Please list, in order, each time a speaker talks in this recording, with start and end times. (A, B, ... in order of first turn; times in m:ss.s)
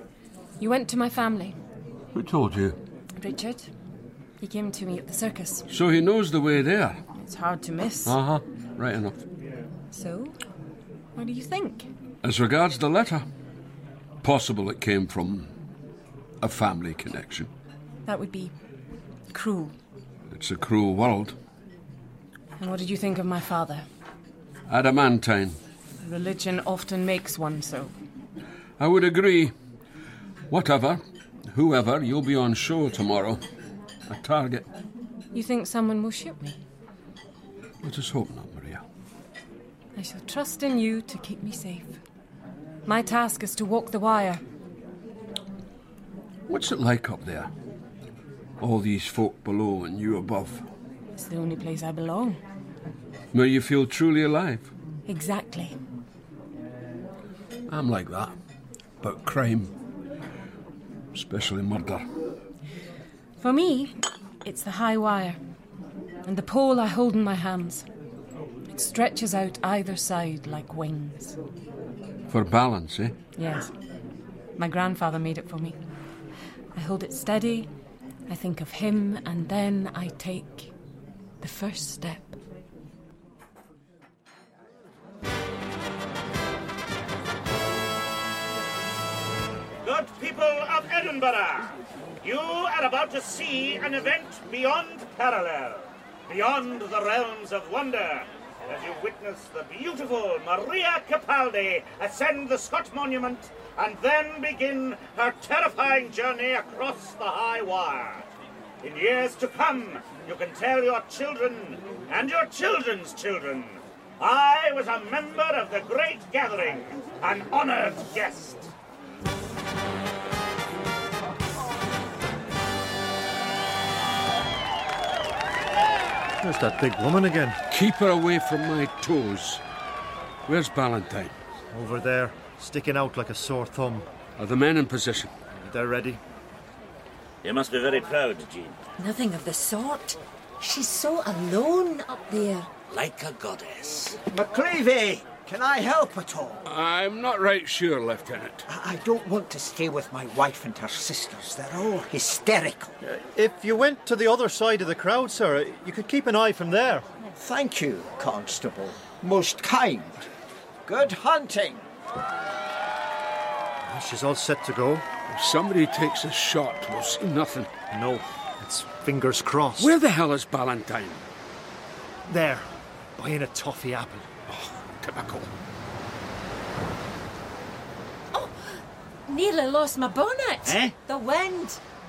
0:00.6-0:01.6 A
0:02.1-0:02.8 B
0:03.2-0:03.7 A
0:04.4-0:05.6 A
0:05.7-0:07.0 B
0:07.2-0:08.1 A
0:08.0-0:09.2 B
0:09.9-0:10.4 A
0:11.2-0:11.9 A
0:12.2-0:13.2 B
0:14.2-0:15.5 B
0:16.4-0:17.5 B
0:18.0-0:18.5 A
0:19.3-0:19.7 A
0:20.3-0:21.4 B
0:22.6-0:23.8 A
0:24.7-0:25.6 B
0:26.0-0:27.9 A
0:28.8-0:29.5 B
0:30.5-0:33.4 B
0:34.1-0:34.6 B
0:35.3-0:36.6 A
0:37.8-0:38.8 B
0:40.0-0:42.0 A
0:42.8-0:44.4 A
0:46.5-0:47.5 B
0:48.6-0:50.6 B
0:51.2-0:52.4 A
0:53.3-0:54.7 B
0:55.0-0:55.8 A
0:57.7-0:58.3 B
0:59.0-0:59.7 B
1:01.1-1:02.0 B
1:03.4-1:05.4 A
1:06.2-1:07.8 A
1:08.7-1:11.4 A
1:12.3-1:13.1 B
1:13.4-1:13.7 A
1:14.6-1:15.8 A
1:16.7-1:17.7 A
1:18.3-1:20.7 A
1:21.4-1:22.4 A
1:29.8-1:48.2 C
1:48.8-1:58.7 C
2:06.4-2:07.6 D
2:07.7-2:09.6 B
2:10.5-2:11.3 B
2:11.7-2:14.1 D
2:14.4-2:15.3 B
2:15.6-2:16.2 D
2:17.4-2:18.8 E
2:19.0-2:22.7 F
2:22.9-2:24.2 E
2:24.3-2:26.6 G
2:26.6-2:28.6 B
2:28.7-2:33.0 G
2:33.0-2:37.0 D
2:37.4-2:40.3 G
2:40.8-2:41.8 G
2:43.8-2:45.1 D
2:45.3-2:47.7 B
2:47.9-2:50.0 D
2:49.8-2:51.2 B
2:52.3-2:54.3 D
2:54.5-2:55.5 B
2:58.3-3:01.8 F
3:00.6-3:00.9 E